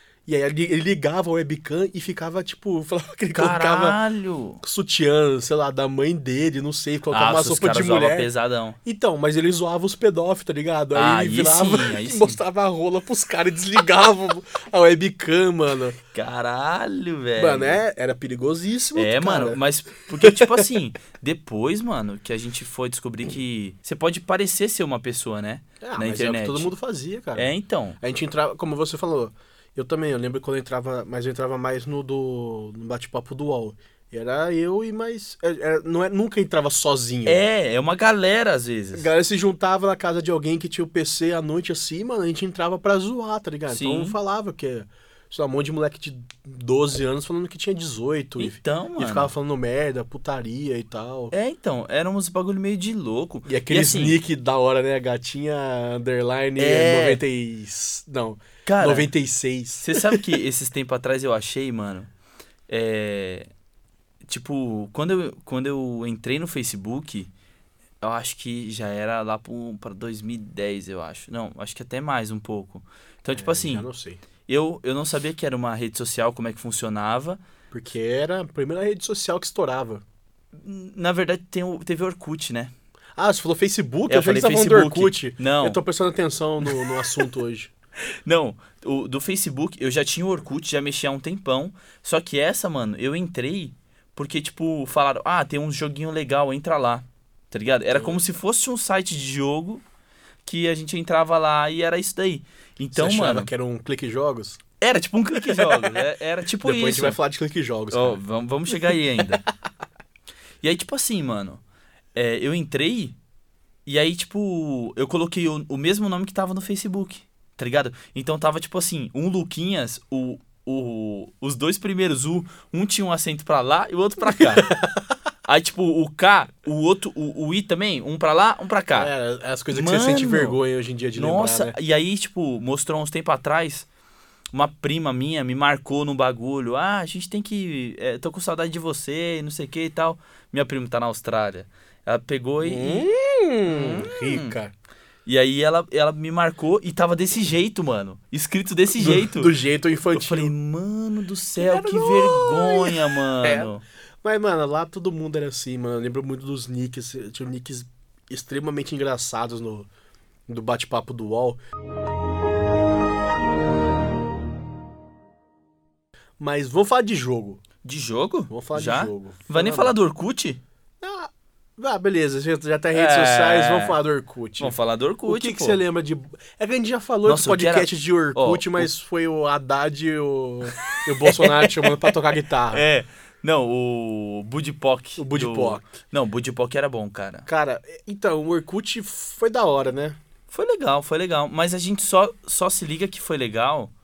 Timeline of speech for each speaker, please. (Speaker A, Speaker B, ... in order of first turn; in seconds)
Speaker A: 0.3-4.0, 4.6-8.3, 8.8-16.0, 17.4-19.6, 20.1-20.7, 25.8-37.4, 38.9-51.3, 53.5-60.2, 73.3-74.2, 77.7-80.0, 83.2-87.7, 97.9-98.2, 102.9-104.6, 105.4-106.0, 106.6-108.2, 108.7-109.2, 124.2-125.1, 128.9-131.7, 142.6-144.7, 149.0-150.5, 151.6-153.7, 154.2-159.9, 160.5-161.6, 166.4-167.6, 168.5-170.0, 171.0-182.9, 185.2-185.9, 187.5-190.2
Speaker B: 3.3-4.6, 7.1-8.8, 10.9-12.4, 16.1-17.8, 18.9-26.7, 27.4-28.0, 37.3-39.1, 43.7-44.2, 48.4-49.3, 51.3-54.2, 56.6-57.2, 58.7-59.1, 59.8-62.1, 62.7-63.5, 64.3-67.3, 68.0-73.9, 74.5-77.4, 80.5-82.7, 84.1-85.8, 88.2-99.8, 100.5-103.5, 104.8-107.2, 107.9-109.4, 110.6-111.6, 112.2-113.2, 113.9-124.8, 125.5-129.1, 129.7-130.6, 131.2-133.9, 134.5-143.1, 143.7-144.6, 145.3-149.5, 150.1-153.8, 167.8-170.6, 172.9-174.0, 174.6-175.8, 177.2-178.9, 180.8-182.1, 182.7-187.5, 190.5-193.9